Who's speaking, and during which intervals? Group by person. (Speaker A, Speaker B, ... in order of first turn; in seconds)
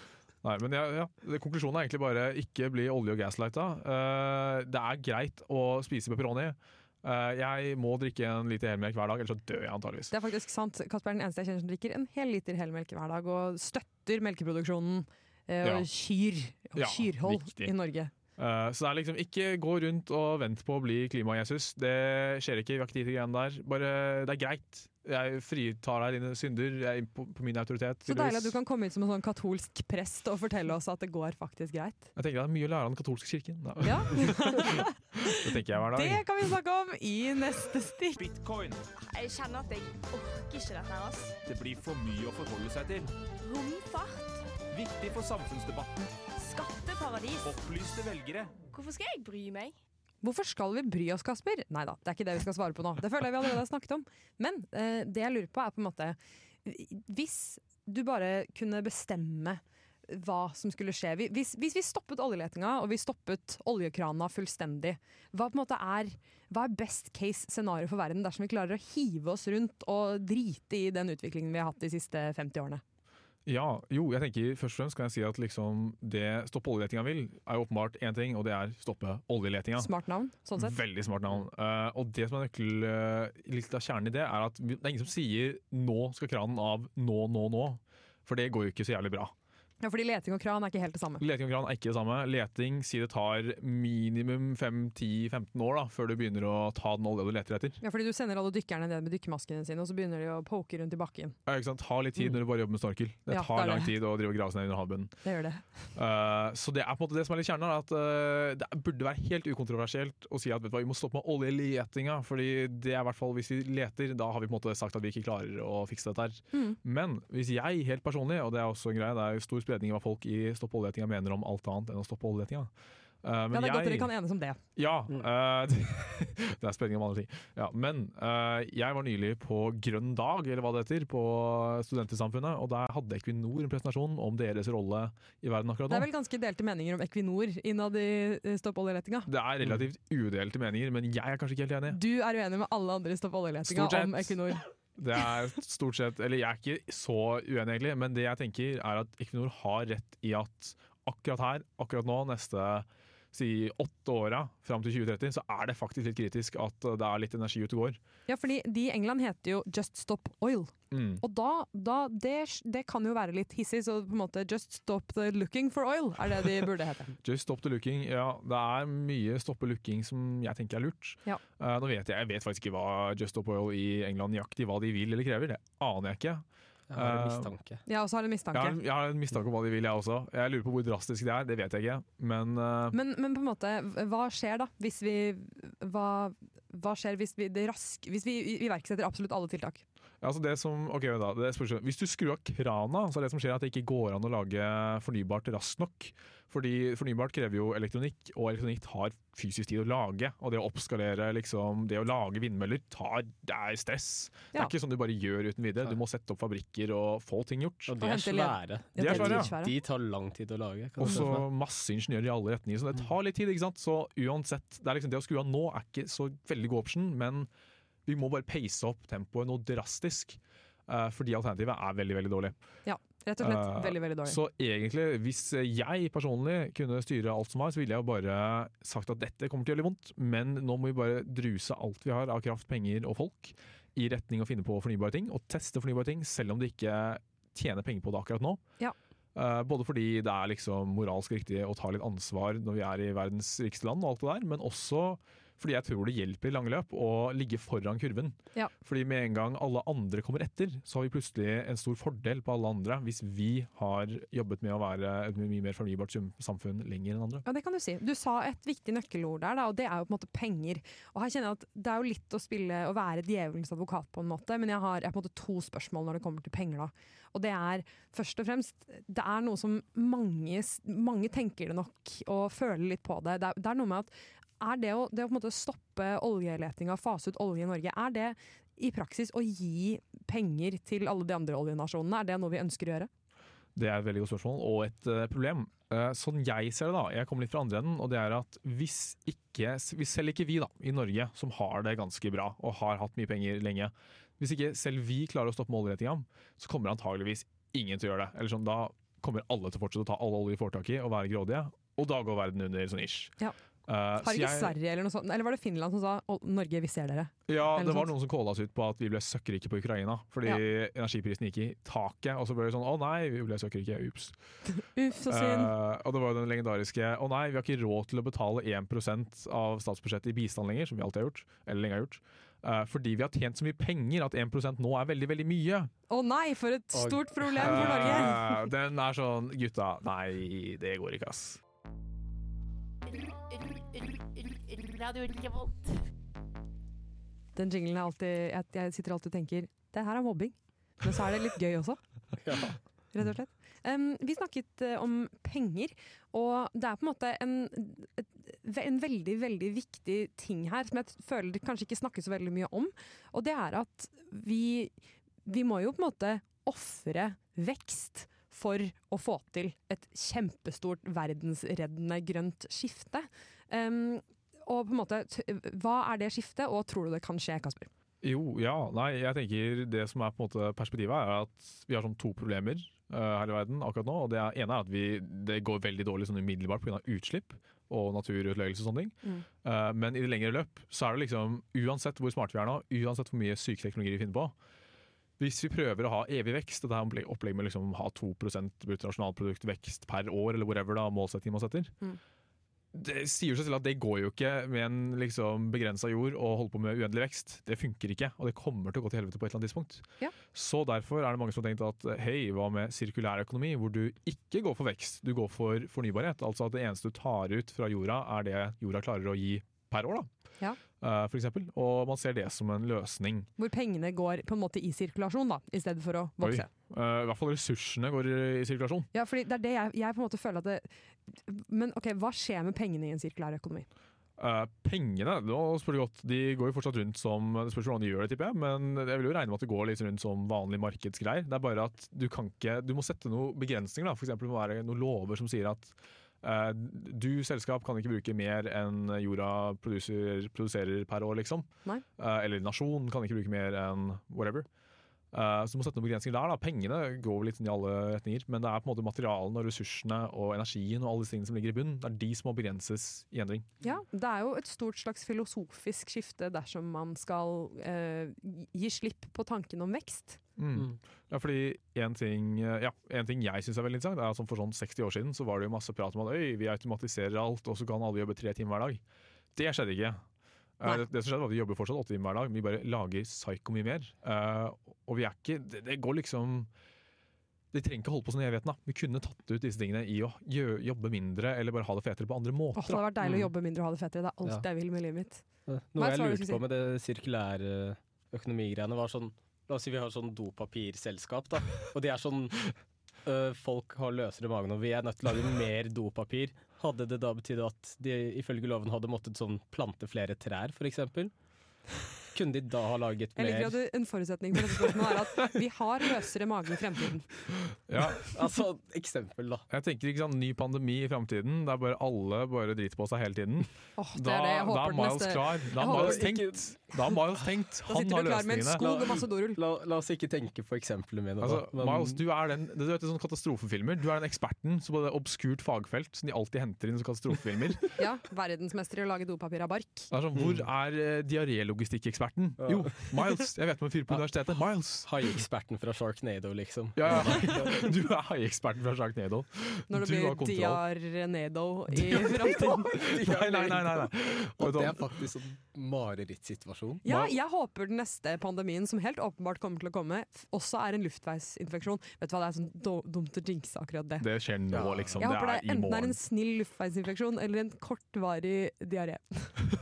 Speaker A: 0.4-10.1, 16.8-17.7, 18.4-28.6, 32.1-36.2, 73.5-79.9, 80.5-89.3, 91.2-97.8, 101.5-105.1, 105.9-122.7, 123.2-124.1, 124.8-136.1, 139.2-142.0, 143.7-158.0, 160.9-161.2, 167.2-177.5, 178.5-183.0, 190.2-207.9, 209.0-209.5, 211.0-217.5, 218.1-222.5, 223.4-238.6, 239.3-257.4, 283.8-303.3, 303.9-304.7, 307.5-314.4, 315.2-325.9, 327.6-331.6, 368.2-384.5, 385.4-391.9, 392.9-410.3, 411.0-413.5, 416.4-419.1, 424.4-444.7, 445.3-453.7, 460.6-469.0, 469.5-470.2, 470.8-476.7, 477.7-483.0, 507.9-508.3, 509.7-519.1, 521.4-527.9, 530.1-535.4, 537.0-540.8, 542.1-545.3, 547.0-547.3, 554.2-556.2
Speaker B: 10.1-18.1, 28.1-32.1, 33.8-38.2, 50.2-72.8, 79.8-80.8, 89.8-91.2, 97.8-101.3, 103.3-103.9, 105.2-105.7, 116.5-116.8, 123.5-124.6, 135.9-139.3, 141.9-144.7, 158.3-167.2, 177.8-178.8, 182.9-189.8, 208.0-209.7, 222.8-224.4, 257.4-283.1, 304.2-308.1, 314.7-315.7, 326.1-328.4, 337.6-342.0, 343.1-354.9, 355.4-367.9, 413.6-416.7, 419.1-423.9, 453.8-460.4, 482.7-485.4, 485.9-486.6, 503.4-507.4, 514.0-516.4, 517.9-519.6, 528.0-530.1, 539.9-542.9, 547.0-554.3, 555.2-559.6
Speaker C: 39.0-41.4, 43.4-44.5, 46.4-47.6, 48.7-49.7
Speaker D: 41.5-43.0, 45.4-45.7, 47.7-48.3
Speaker E: 176.9-177.8, 207.9-211.4, 326.9-328.3, 342.4-342.8, 483.2-483.5, 485.7-501.3, 502.3-503.8, 508.3-509.7, 515.8-516.6, 518.8-522.2, 530.3-530.6, 532.6-533.0, 535.0-537.9, 542.1-547.0, 554.7-555.2